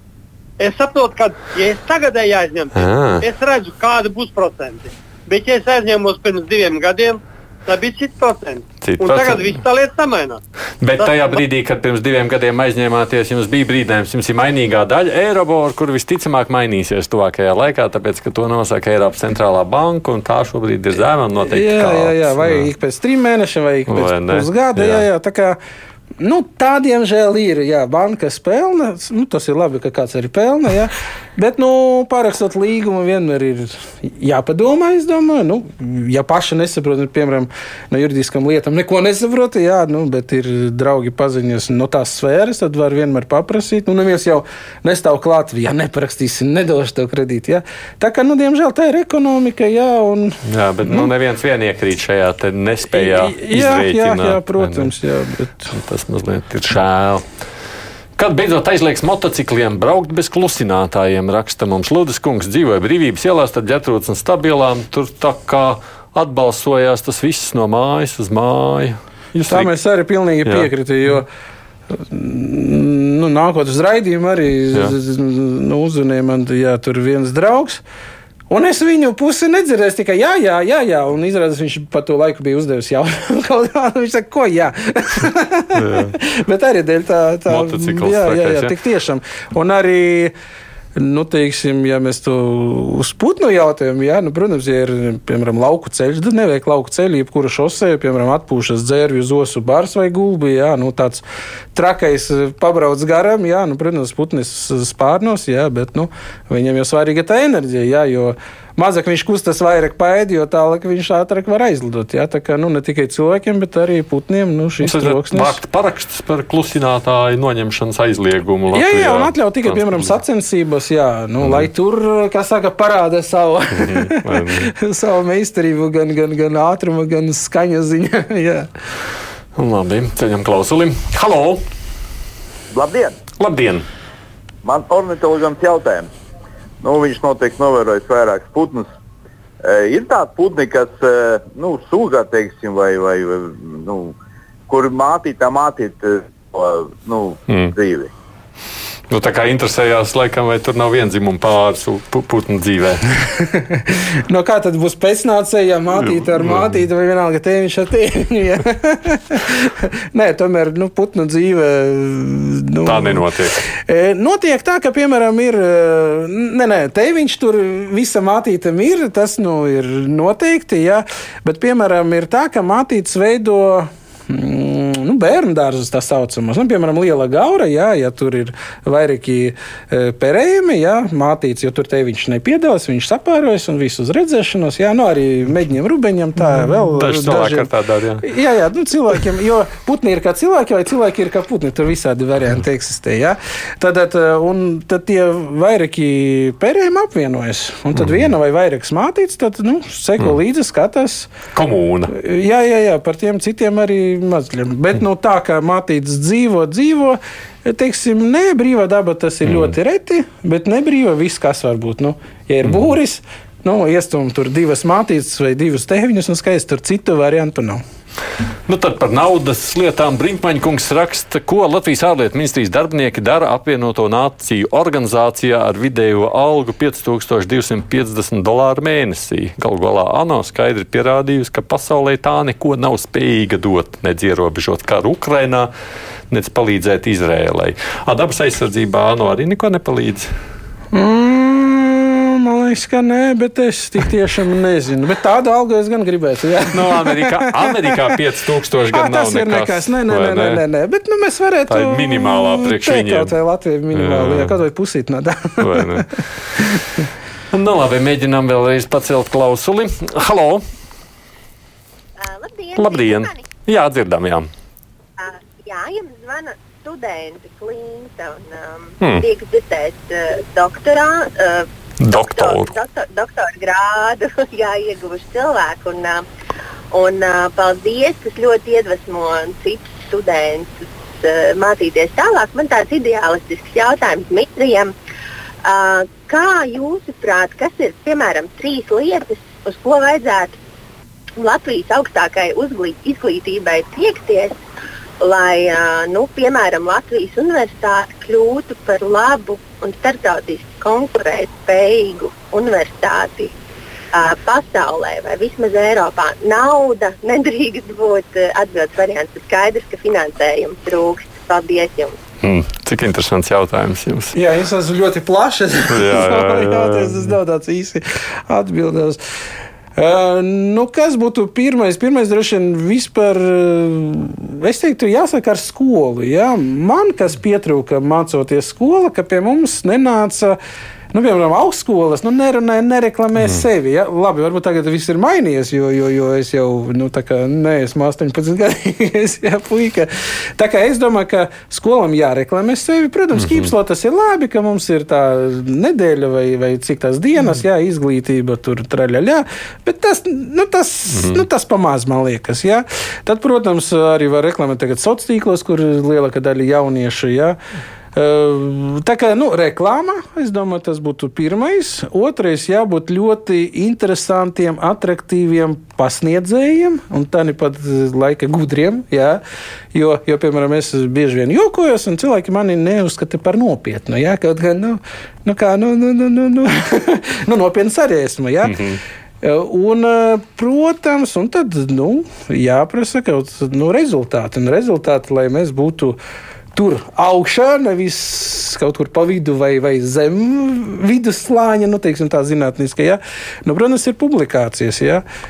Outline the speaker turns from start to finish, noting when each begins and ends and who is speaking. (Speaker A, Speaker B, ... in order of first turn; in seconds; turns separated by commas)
Speaker A: 0.6-10.4, Speaker B: 2.7-3.3, Speaker B: 8.8-9.6, Speaker B: 10.8-22.7, Speaker A: 11.0-11.4, Speaker C: 21.4-25.6, Speaker B: 23.9-25.1, Speaker C: 26.2-51.1, Speaker B: 50.4-54.9, Speaker C: 52.9-55.7, Speaker B: 55.7-57.3, Speaker B: 58.1-69.7, Speaker C: 69.5-71.3, Speaker B: 70.4-70.7, Speaker C: 71.9-77.8, Speaker C: 78.5-90.3, Speaker B: 85.7-86.1, Speaker B: 87.5-88.7, Speaker C: 91.0-101.2, Speaker C: 101.7-115.6, Speaker B: 114.8-120.1, Speaker C: 118.7-128.7, Speaker B: 121.4-121.7, Speaker B: 123.7-124.7, Speaker B: 129.6-131.6, Speaker D: 132.7-133.2, Speaker B: 133.4-133.9, Speaker D: 134.6-136.1, Speaker D: 136.8-138.9, Speaker D: 139.6-144.1, Speaker D: 144.7-148.1, Speaker B: 147.5-147.7, Speaker B: 149.1-153.0, Speaker C: 153.4-187.7, Speaker B: 155.9-156.8, Speaker B: 162.8-163.6, Speaker B: 186.4-188.2, Speaker C: 188.2-201.3, Speaker B: 197.9-198.2, Speaker B: 201.5-202.1, Speaker C: 202.1-217.8, Speaker B: 209.4-209.7, Speaker B: 218.7-235.7, Speaker B: 236.3-240.3, Speaker C: 240.9-247.9, Speaker B: 246.7-250.6, Speaker C: 248.9-256.0, Speaker B: 251.7-253.3, Speaker B: 253.9-254.6, Speaker B: 255.6-256.1, Speaker B: 257.5-260.6, Speaker E: 262.2-263.4, Speaker B: 262.8-264.5, Speaker E: 265.2-276.2, Speaker B: 269.0-269.3, Speaker B: 272.0-272.7, Speaker E: 276.9-284.9, Speaker E: 285.6-290.6, Speaker E: 291.4-294.6, Speaker E: 295.2-303.5, Speaker E: 304.1-312.1, Speaker B: 312.4-314.3, Speaker C: 314.3-319.2, Speaker B: 315.9-317.3, Speaker C: 319.9-330.6, Speaker C: 331.1-357.6, Speaker B: 343.4-343.7, Speaker B: 351.1-351.4, Speaker C: 358.1-369.4, Speaker C: 369.9-378.8, Speaker B: 378.6-379.0, Speaker C: 379.4-386.2, Speaker C: 386.7-395.2